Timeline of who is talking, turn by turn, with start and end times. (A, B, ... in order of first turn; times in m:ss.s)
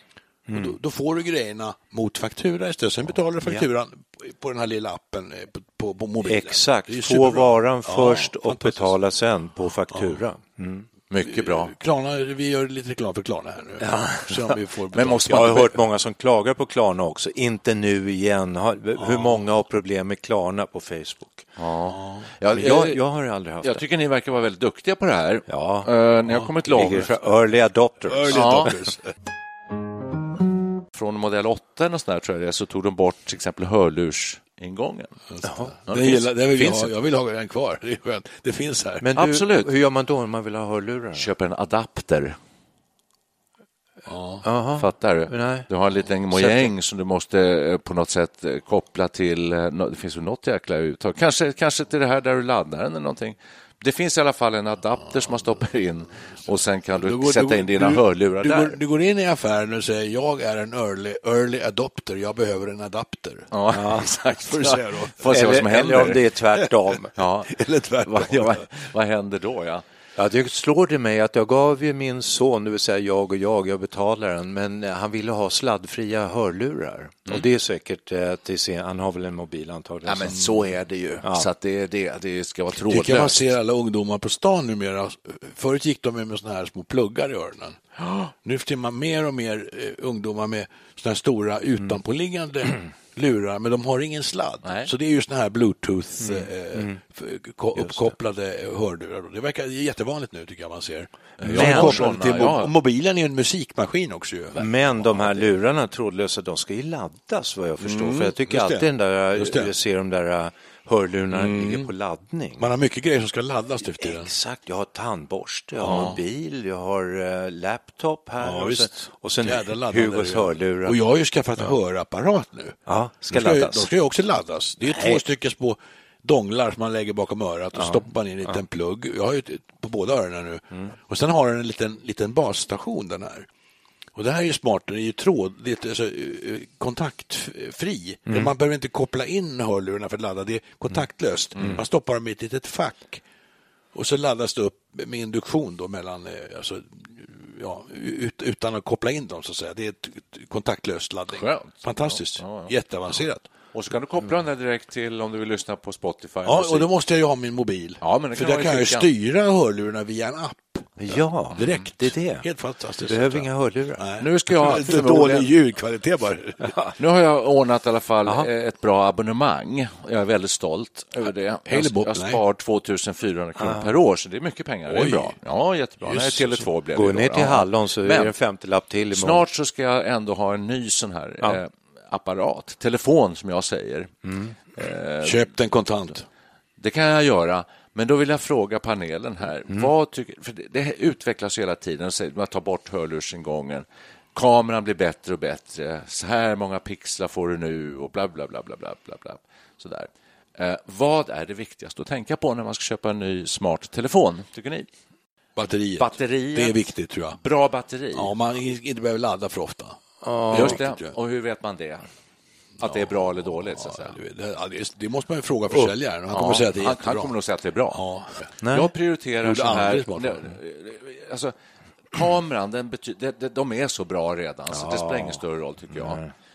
0:00.5-0:00.8 A
0:00.5-0:09.0 B
0:03.4-0:03.7 A
0:06.2-0:10.9 A
0:09.9-0:10.2 B
0:11.1-0:11.7 C
0:11.2-0:15.7 B
0:13.8-0:14.6 A
0:14.9-0:15.7 C
0:15.2-0:21.5 A
0:19.0-0:19.4 B
0:21.6-0:23.0 C
0:21.9-0:22.3 B
0:22.5-0:23.8 A
0:23.6-0:27.2 C
0:25.5-0:28.9 A
0:28.1-0:29.1 B
0:28.3-0:28.7 C
0:30.9-0:35.2 C
0:35.3-0:39.1 B
0:35.4-0:35.8 A
0:35.9-0:36.9 C
0:39.0-0:41.3 A
0:39.1-0:39.7 C
0:41.2-0:42.4 C
0:44.1-0:44.4 B
0:44.4-0:45.7 A
0:44.8-0:58.8 C
0:46.3-0:46.7 A
0:57.0-1:03.5 B
1:03.5-1:06.2 C
1:03.7-1:04.1 A
1:04.5-1:05.2 B
1:05.3-1:07.1 A
1:07.2-1:09.8 C
1:07.5-1:08.6 B
1:10.2-1:20.4 A
1:20.0-1:23.4 C
1:21.2-1:21.5 A
1:22.8-1:27.8 B
1:28.0-1:28.3 C
1:28.4-1:45.4 B
1:34.6-1:34.9 C
1:36.2-1:37.0 A
1:37.8-1:38.1 A
1:41.4-1:42.7 C
1:41.4-1:42.1 A
1:44.6-1:52.7 A
1:47.8-1:49.7 B
1:51.3-1:51.9 B
1:52.6-1:54.3 B
1:53.9-2:01.0 A
1:55.8-1:56.2 B
1:55.9-1:56.2 C
1:58.4-2:02.8 B
2:02.9-2:03.9 A
2:03.3-2:13.5 B
2:04.8-2:05.2 A
2:07.8-2:08.6 A
2:14.2-2:23.2 B
2:18.3-2:18.5 A
2:21.6-2:21.8 C
2:23.9-2:33.5 B
2:31.3-2:32.7 C
2:33.7-2:36.9 C
2:36.4-2:46.7 B
2:38.0-2:39.1 C
2:41.0-2:42.5 A
2:41.6-2:41.9 C
2:43.0-2:44.0 A
2:44.2-2:45.5 C
2:46.6-2:47.0 A
2:47.0-2:58.4 C
2:51.7-2:52.4 B
2:53.6-2:53.9 A
2:54.9-2:55.4 B
2:56.0-2:56.6 B
2:57.0-2:59.5 A
2:59.1-3:04.1 C
3:04.2-3:04.6 A
3:04.8-3:05.5 C
3:05.2-3:06.3 B
3:06.8-3:24.9 C
3:25.6-3:27.4 B
3:26.0-3:26.8 C
3:27.4-3:28.3 C
3:28.1-3:30.0 B
3:30.2-3:30.8 A
3:30.5-3:31.2 B
3:30.5-3:32.1 C
3:32.8-3:34.2 C
3:32.8-3:37.4 B
3:36.3-3:38.0 C
3:37.9-3:38.5 B
3:38.6-3:38.9 A
3:38.7-3:41.5 C
3:39.4-3:40.5 B
3:42.1-3:46.2 C
3:44.7-3:46.3 A